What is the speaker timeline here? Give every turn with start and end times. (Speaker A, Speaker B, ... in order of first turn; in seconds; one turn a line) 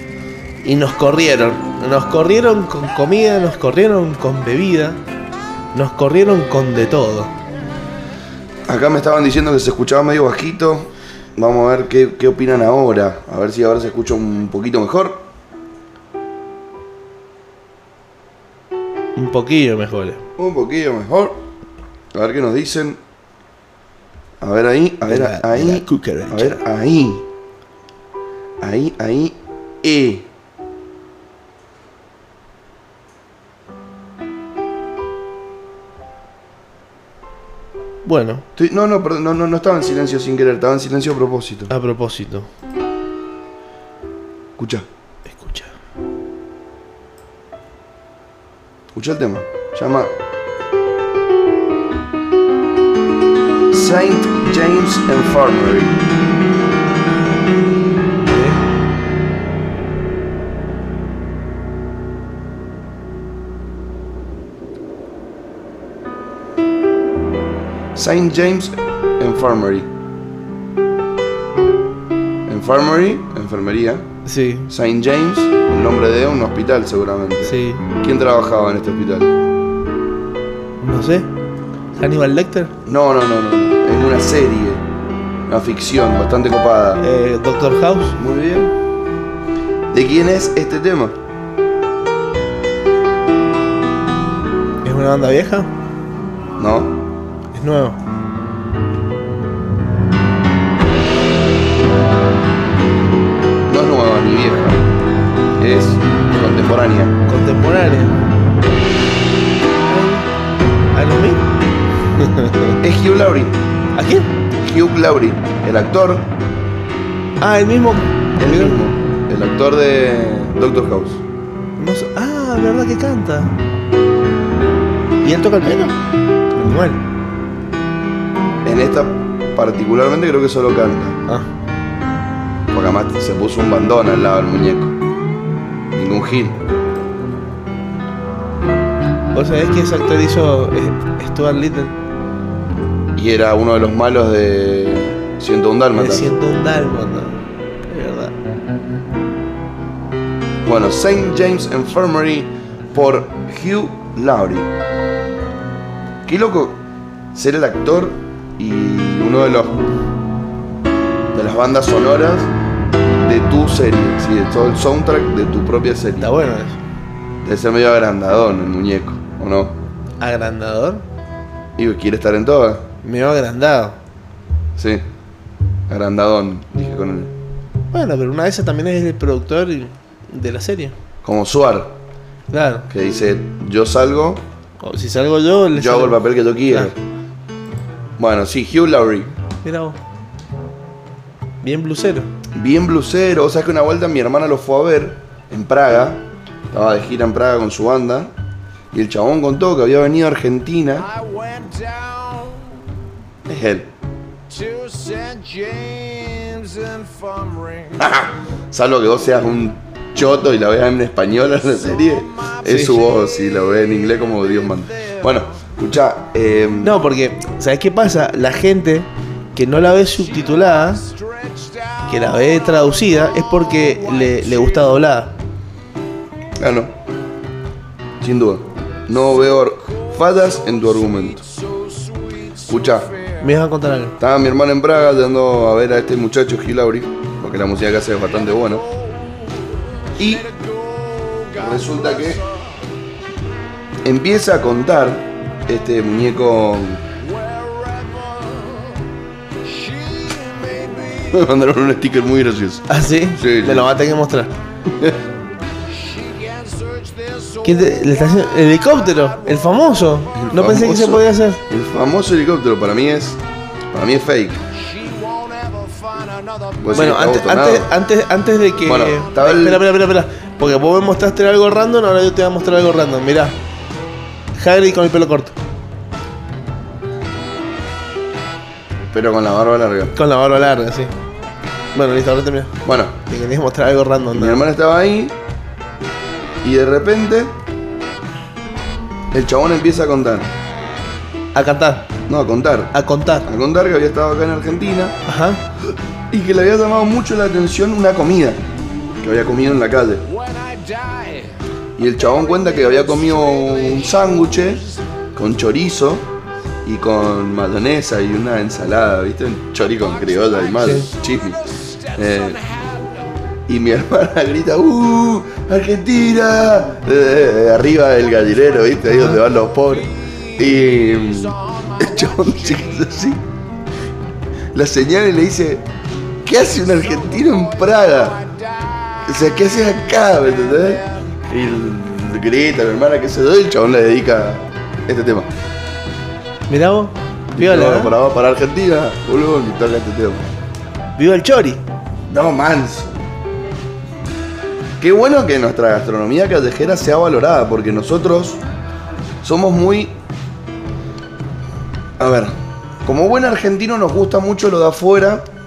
Speaker A: 0.6-5.0
Speaker A: 5.7-7.3
Speaker B: 8.7-15.3
Speaker A: 19.1-20.2
Speaker B: 20.4-21.4
Speaker B: 22.1-23.0
Speaker B: 24.4-27.2
Speaker A: 25.1-26.6
Speaker B: 28.6-30.3
Speaker A: 38.0-38.4
Speaker B: 38.5-41.7
Speaker A: 41.7-42.5
Speaker B: 44.6-44.9
Speaker A: 45.3-45.7
Speaker B: 48.9-50.1
Speaker B: 53.7-56.0
Speaker A: 58.2-58.6
Speaker B: 67.9-69.9
Speaker B: 72.5-74.1
Speaker A: 74.2-74.7
Speaker B: 74.7-79.3
Speaker A: 77.4-77.8
Speaker A: 80.8-81.3
Speaker A: 82.0-82.7
Speaker B: 82.8-84.8
Speaker B: 85.5-87.0
Speaker A: 87.0-88.2
Speaker B: 88.2-88.7
Speaker B: 89.9-91.2
Speaker A: 94.8-95.7
Speaker B: 96.6-96.9
Speaker A: 97.5-98.0
Speaker B: 103.7-104.9
Speaker B: 105.6-107.2
Speaker A: 107.3-108.2
Speaker A: 109.9-110.3
Speaker A: 110.9-111.4
Speaker A: 112.2-112.8
Speaker B: 112.8-113.6
Speaker A: 114.0-114.3
Speaker B: 114.6-116.3
Speaker A: 117.4-118.8
Speaker B: 118.4-121.2
Speaker A: 121.8-123.5
Speaker A: 125.2-126.0
Speaker A: 126.5-127.0
Speaker B: 128.6-131.2
Speaker B: 132.7-134.9
Speaker B: 135.9-136.6
Speaker A: 139.3-141.9
Speaker B: 143.1-146.3
Speaker A: 145.9-148.3
Speaker B: 150.6-154.7
Speaker B: 156.2-156.8
Speaker B: 157.3-159.8
Speaker B: 161.3-162.5
Speaker B: 163.1-166.3
Speaker A: 166.2-166.8
Speaker B: 167.4-169.8
Speaker A: 170.2-171.0
Speaker B: 171.8-172.8
Speaker A: 173.0-174.0
Speaker B: 174.8-175.0
Speaker B: 175.9-177.3
Speaker A: 177.9-180.9
Speaker B: 181.2-182.0
Speaker A: 182.5-182.9
Speaker B: 182.9-184.4
Speaker A: 184.8-186.9
Speaker B: 185.7-187.0
Speaker B: 188.2-189.3
Speaker A: 189.6-190.0
Speaker A: 191.6-192.3
Speaker B: 192.5-198.3
Speaker B: 198.9-201.1
Speaker C: 201.0-202.8
Speaker B: 203.5-203.9
Speaker C: 204.5-208.1
Speaker B: 208.0-217.0
Speaker C: 212.3-212.6
Speaker A: 212.6-213.1
Speaker C: 214.8-215.2
Speaker A: 216.8-221.0
Speaker C: 220.2-225.0
Speaker A: 222.1-225.3
Speaker B: 226.6-226.9
Speaker B: 228.2-231.4
Speaker C: 230.6-233.4
Speaker B: 232.7-233.1
Speaker A: 233.4-234.2
Speaker B: 234.2-238.8
Speaker C: 238.6-242.7
Speaker B: 240.2-240.4
Speaker B: 241.6-242.4
Speaker B: 244.0-247.0
Speaker C: 247.2-249.0
Speaker C: 249.6-251.4
Speaker B: 251.3-253.9
Speaker A: 252.9-254.5
Speaker B: 254.8-255.2
Speaker C: 255.8-258.5
Speaker A: 257.6-261.6
Speaker C: 259.1-259.8
Speaker B: 260.3-263.4
Speaker B: 263.9-264.6
Speaker C: 264.7-266.9
Speaker B: 266.8-267.9
Speaker A: 266.9-273.6
Speaker B: 268.8-269.9
Speaker A: 274.6-275.6
Speaker B: 279.1-280.1
Speaker A: 280.1-281.1
Speaker A: 281.9-284.6
Speaker B: 282.8-283.1
Speaker B: 284.3-285.3
Speaker B: 286.6-287.5
Speaker B: 289.3-290.5
Speaker A: 291.5-292.1
Speaker B: 292.3-292.9
Speaker A: 292.9-293.5
Speaker B: 293.4-295.2
Speaker A: 295.2-295.6
Speaker B: 296.3-298.6
Speaker B: 299.2-300.2
Speaker C: 300.2-301.6
Speaker B: 302.0-304.8
Speaker C: 302.7-304.9
Speaker B: 305.3-306.3
Speaker B: 306.8-311.6
Speaker A: 310.8-311.1
Speaker C: 311.8-313.1
Speaker B: 312.1-312.6
Speaker B: 313.7-323.4
Speaker C: 320.0-323.1
Speaker B: 324.7-325.8
Speaker B: 326.4-328.4
Speaker C: 327.1-329.4
Speaker B: 329.2-335.5
Speaker C: 330.7-331.1
Speaker A: 336.7-338.1
Speaker B: 337.5-340.5
Speaker A: 341.2-341.8
Speaker B: 342.3-343.2
Speaker B: 345.0-348.6
Speaker B: 349.4-350.1
Speaker B: 352.2-355.5